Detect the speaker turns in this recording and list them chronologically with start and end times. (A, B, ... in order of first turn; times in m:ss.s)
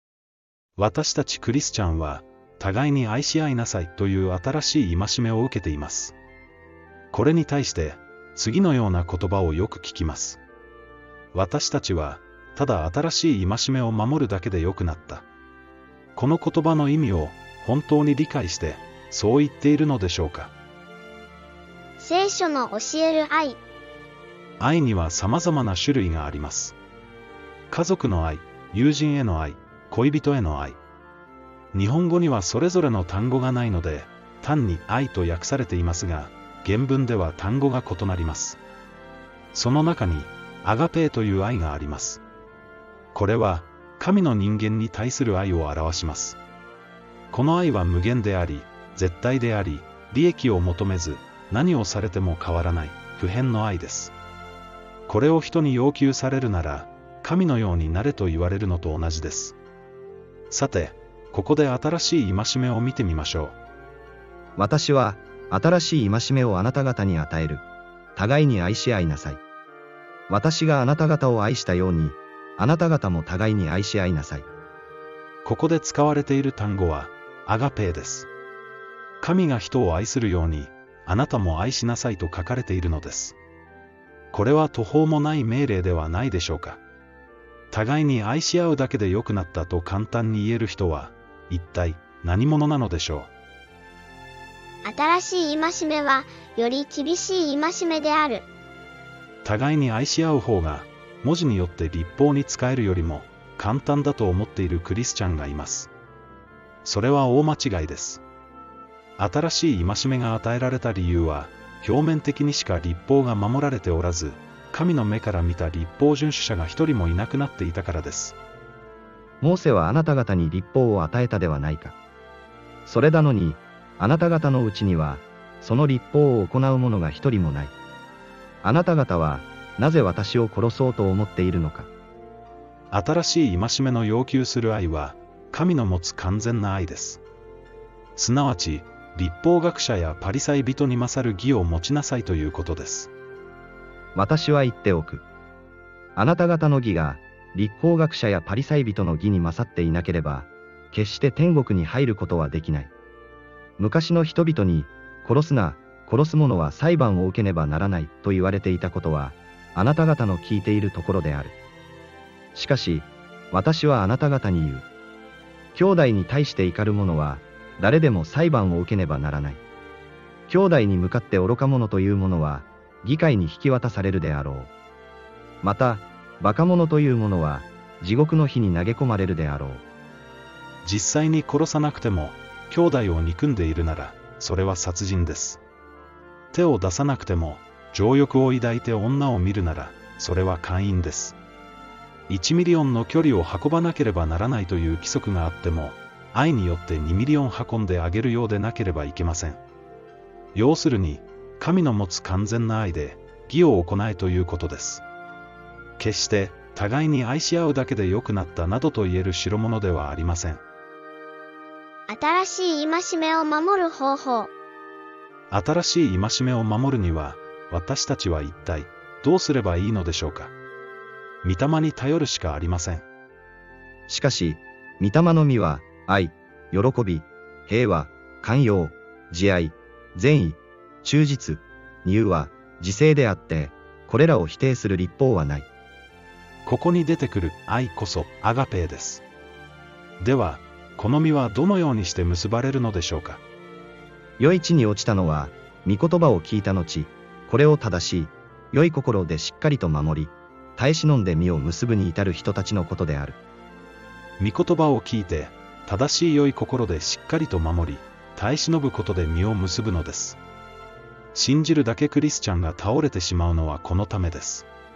0:00.8-0:06.1 A
0:07.1-0:10.4 A
0:11.3-0:15.2 A
0:16.1-0:20.5 A
0:22.0-0:23.6 B
0:24.6-0:26.8 A
0:27.7-0:30.8 A
0:31.7-0:38.6 A
0:39.5-0:42.2 A
0:43.1-0:46.4 A
0:47.3-0:54.1 A
0:55.1-0:59.6 A
1:00.5-1:03.6 A
1:04.6-1:07.6 C
1:08.2-1:09.4 C
1:10.3-1:14.5 C
1:15.4-1:18.3 A
1:19.2-1:23.4 A
1:24.3-1:26.8 A
1:27.7-1:33.3 A
1:34.8-1:38.5 B
1:39.4-1:45.9 A
1:46.8-1:48.2 A
1:49.2-1:58.4 A
1:59.4-2:02.0 C
2:02.8-2:07.7 C
2:08.6-2:11.9 C
2:12.9-2:17.2 A
2:18.2-2:23.1 A
2:24.1-2:25.2 C
2:26.2-2:32.9 C
2:33.8-2:41.5 C
2:42.5-2:44.9 C
2:45.7-2:49.6 C
2:50.5-2:54.7 C
2:55.6-2:59.8 C
3:00.8-3:05.6 A
3:06.5-3:11.4 A
3:12.3-3:19.6 A
3:20.5-3:25.0 A
3:26.0-3:30.6 A
3:32.1-3:34.5 B
3:35.5-3:40.5 A
3:41.4-3:43.1 A
3:44.1-3:55.7 C
3:56.6-3:59.2 A
4:00.2-4:03.4 A
4:04.4-4:13.4 C
4:14.4-4:20.4 A
4:21.3-4:24.7 A